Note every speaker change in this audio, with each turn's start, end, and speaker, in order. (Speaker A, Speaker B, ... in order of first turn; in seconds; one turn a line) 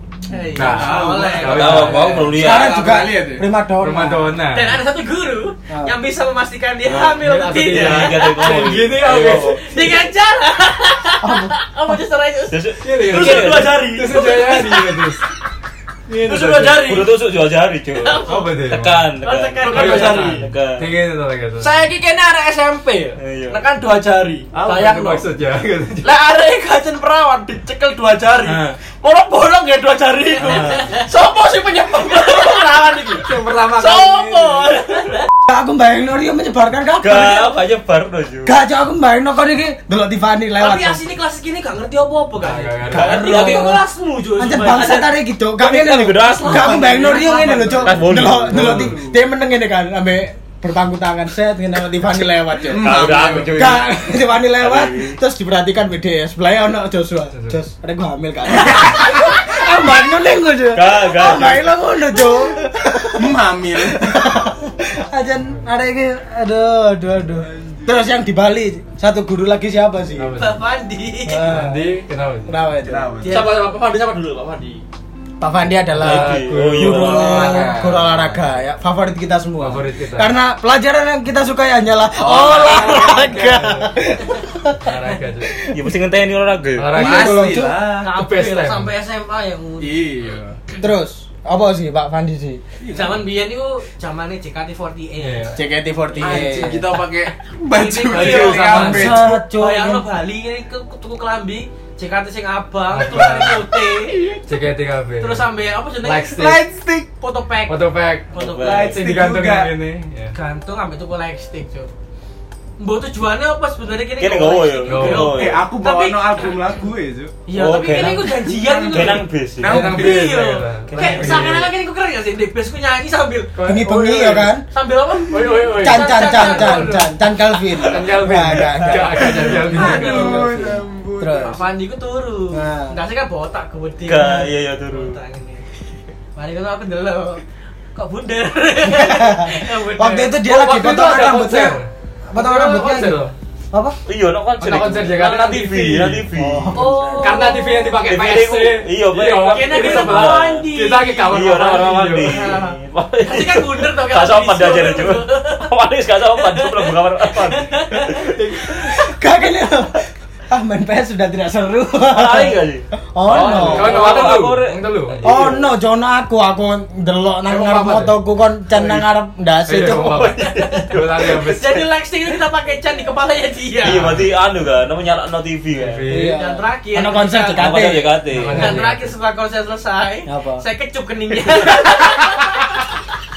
Speaker A: 0.3-1.9
Speaker B: 0.5-2.3
Speaker C: 0.6-3.5
Speaker D: 1.4-2.8
Speaker E: 2.2-4.3
Speaker B: 3.8-4.8
Speaker A: 4.5-8.6
Speaker E: 5.7-5.9
Speaker D: 6.8-9.6
Speaker B: 7.2-10.0
Speaker A: 9.1-12.6
Speaker E: 11.2-11.5
Speaker D: 12.5-13.8
Speaker B: 12.8-15.2
Speaker F: 13.0-14.3
Speaker A: 14.1-15.1
Speaker B: 16.1-16.9
Speaker F: 16.2-17.1
Speaker D: 16.7-20.9
Speaker A: 18.0-18.6
Speaker B: 18.2-19.1
Speaker A: 19.2-20.3
Speaker F: 19.6-20.4
Speaker B: 19.6-21.8
Speaker F: 21.6-25.3
Speaker D: 23.2-23.6
Speaker B: 24.5-26.1
Speaker F: 26.0-34.6
Speaker D: 28.4-28.8
Speaker D: 30.4-30.9
Speaker A: 30.4-31.1
Speaker A: 31.9-32.8
Speaker B: 33.3-34.6
Speaker A: 33.8-35.3
Speaker E: 35.4-37.5
Speaker D: 37.0-38.5
Speaker E: 38.4-41.0
Speaker A: 40.6-45.1
Speaker B: 42.4-43.3
Speaker E: 42.9-43.8
Speaker D: 42.9-43.8
Speaker E: 44.4-70.3
Speaker D: 45.6-48.9
Speaker A: 46.2-47.9
Speaker B: 48.5-49.0
Speaker C: 48.5-49.1
Speaker C: 52.6-53.7
Speaker D: 52.7-54.0
Speaker D: 54.6-55.2
Speaker D: 60.7-61.7
Speaker C: 63.1-64.5
Speaker C: 67.4-68.0
Speaker B: 70.2-70.6
Speaker A: 70.3-71.6
Speaker E: 71.3-71.9
Speaker B: 71.4-72.6
Speaker E: 72.5-73.2
Speaker C: 72.8-73.6
Speaker A: 73.2-73.6
Speaker F: 73.2-74.8
Speaker E: 75.4-85.7
Speaker B: 75.9-77.4
Speaker D: 76.0-77.7
Speaker C: 76.8-78.5
Speaker B: 79.6-80.3
Speaker C: 82.1-83.4
Speaker B: 82.5-84.0
Speaker B: 84.8-85.6
Speaker D: 85.7-87.0
Speaker B: 86.8-88.9
Speaker E: 86.9-87.8
Speaker C: 86.9-88.1
Speaker A: 88.0-90.0
Speaker C: 89.8-90.6
Speaker E: 90.8-92.6
Speaker C: 92.8-93.3
Speaker A: 92.9-95.5
Speaker B: 95.2-95.6
Speaker E: 95.5-96.9
Speaker C: 96.2-99.4
Speaker A: 97.7-104.2
Speaker B: 98.1-99.2
Speaker E: 98.7-100.0
Speaker B: 102.9-103.7
Speaker C: 104.1-104.4
Speaker B: 104.5-105.5
Speaker A: 105.2-106.5
Speaker B: 106.0-106.7
Speaker C: 106.3-107.1
Speaker A: 107.2-108.9
Speaker B: 107.7-110.3
Speaker D: 108.4-109.0
Speaker C: 108.6-109.8
Speaker A: 110.3-111.9
Speaker A: 112.8-116.5
Speaker D: 114.2-115.6
Speaker B: 114.9-115.3
Speaker C: 115.1-117.3
Speaker A: 117.5-123.5
Speaker D: 117.5-119.9
Speaker C: 118.4-120.4
Speaker B: 119.6-121.7
Speaker D: 120.9-121.6
Speaker B: 123.5-124.5
Speaker E: 123.6-124.6
Speaker A: 124.7-127.1
Speaker B: 125.3-127.0
Speaker E: 125.8-131.6
Speaker B: 127.9-130.5
Speaker C: 129.1-131.6
Speaker A: 131.4-135.6
Speaker E: 132.5-133.0
Speaker D: 134.1-135.2
Speaker A: 136.3-137.4
Speaker A: 137.9-140.3
Speaker E: 138.8-141.8
Speaker B: 140.4-143.3
Speaker E: 142.3-144.0
Speaker D: 144.1-146.8
Speaker B: 144.6-146.2
Speaker E: 146.3-147.5
Speaker A: 146.7-148.1
Speaker B: 147.2-152.5
Speaker D: 148.0-150.7
Speaker A: 149.4-151.5
Speaker D: 151.3-158.4
Speaker A: 152.2-155.7
Speaker A: 156.4-158.3
Speaker E: 158.9-164.1
Speaker D: 162.1-165.6
Speaker B: 163.2-165.4
Speaker E: 165.2-170.3
Speaker B: 167.5-168.1
Speaker B: 169.7-171.8
Speaker D: 169.9-171.5
Speaker A: 170.4-174.2
Speaker D: 173.8-176.1
Speaker B: 175.8-176.3
Speaker E: 176.1-178.2
Speaker A: 176.2-177.7
Speaker D: 177.6-178.8
Speaker B: 178.3-179.1
Speaker A: 178.5-182.9
Speaker E: 180.3-180.6